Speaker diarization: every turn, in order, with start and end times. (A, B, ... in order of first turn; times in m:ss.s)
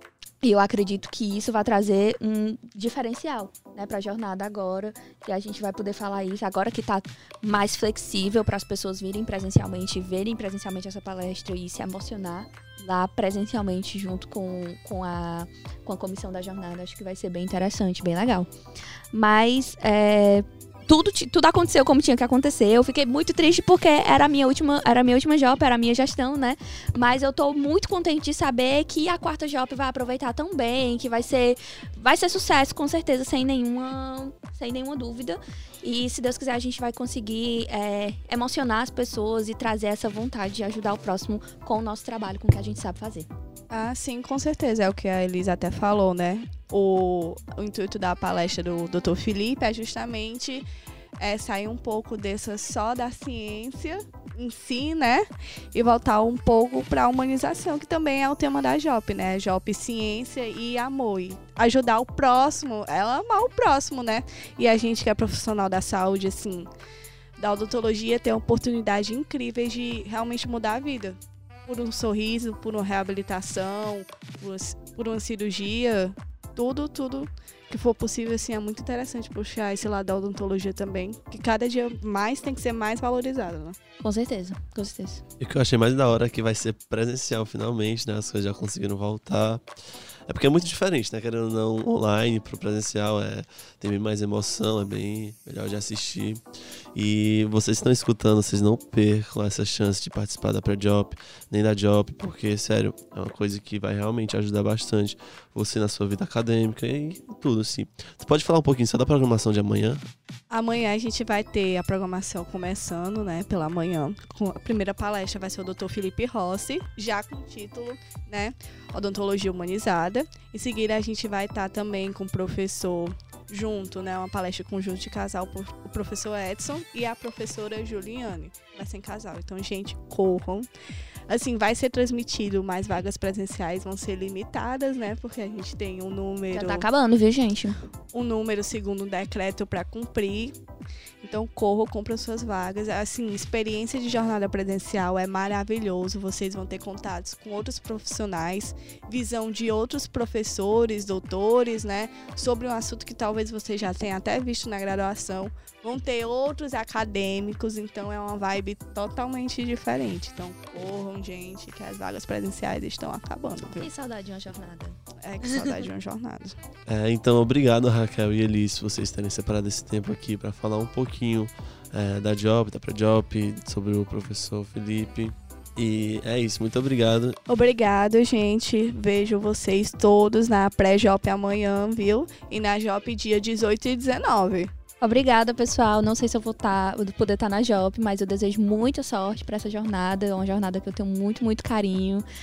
0:00.4-0:18.5 A
0:19.1-0:43.3 A
0:43.7-0:50.6 B
0:51.2-1:06.7 B
1:07.4-1:23.8 B
1:24.0-1:25.2 A
1:25.4-1:29.6 C
1:30.3-1:36.4 C
1:36.9-1:50.0 C
1:50.5-2:10.7 B
2:11.3-2:16.9 B
2:16.5-2:17.8 A
2:18.1-2:20.6 B
2:21.2-2:43.9 B
2:43.6-2:45.8 A
2:45.2-2:46.6 B
2:46.9-2:57.4 C
2:57.5-3:04.7 B
3:05.0-3:12.2 A